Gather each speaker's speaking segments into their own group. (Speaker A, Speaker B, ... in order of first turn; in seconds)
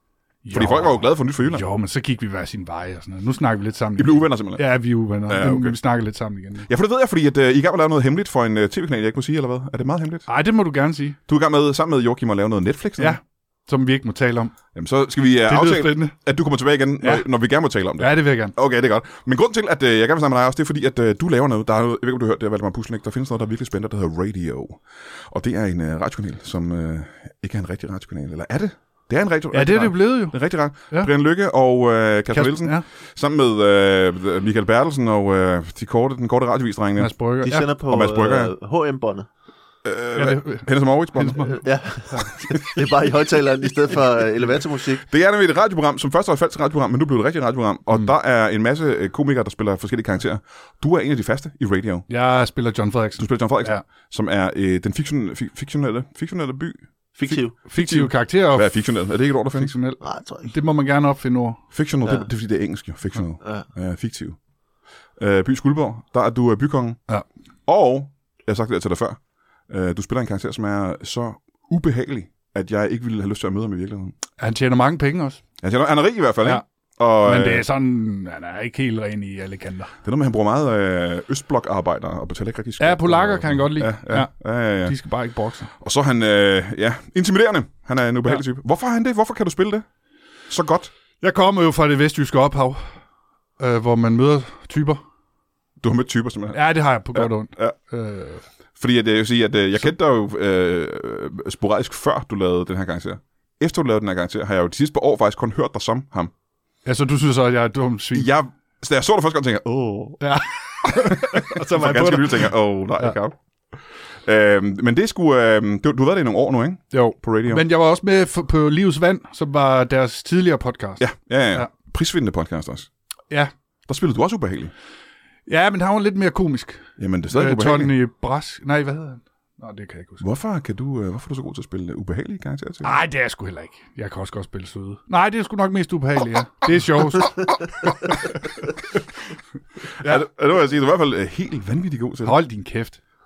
Speaker A: 0.4-6.7, 10.3-11.2, 13.0-14.6, 15.5-16.1, 17.0-17.3, 18.0-18.5, 29.5-30.4, 32.3-32.9, 37.0-37.7, 40.1-41.5, 52.1-53.8, 57.6-58.8, 59.5-61.6, 74.4-75.4, 77.2-79.9, 82.8-85.7, 91.2-92.9, 93.6-95.0, 96.5-98.4, 106.8-108.3, 110.2-113.2, 116.9-121.0, 125.5-130.2, 132.8-137.5, 142.3-143.0
Speaker B: 0.5-1.6, 4.0-4.7, 5.3-5.8, 6.7-10.3, 11.3-13.2, 14.8-37.1, 37.9-38.5, 39.9-41.6, 42.5-42.8, 45.1-52.1, 53.2-59.7, 61.7-64.4, 65.2-67.0, 67.7-74.2, 75.6-77.7, 80.0-85.0, 85.8-89.8, 90.5-90.9, 95.8-97.8, 98.8-106.3, 108.1-110.2, 110.8-113.4, 114.2-117.6, 121.0-122.9, 123.9-124.7, 127.0-127.9, 130.2-132.9, 140.0-142.4
Speaker C: 37.4-39.3, 41.5-45.0, 57.1-57.5, 60.0-60.5, 62.0-62.3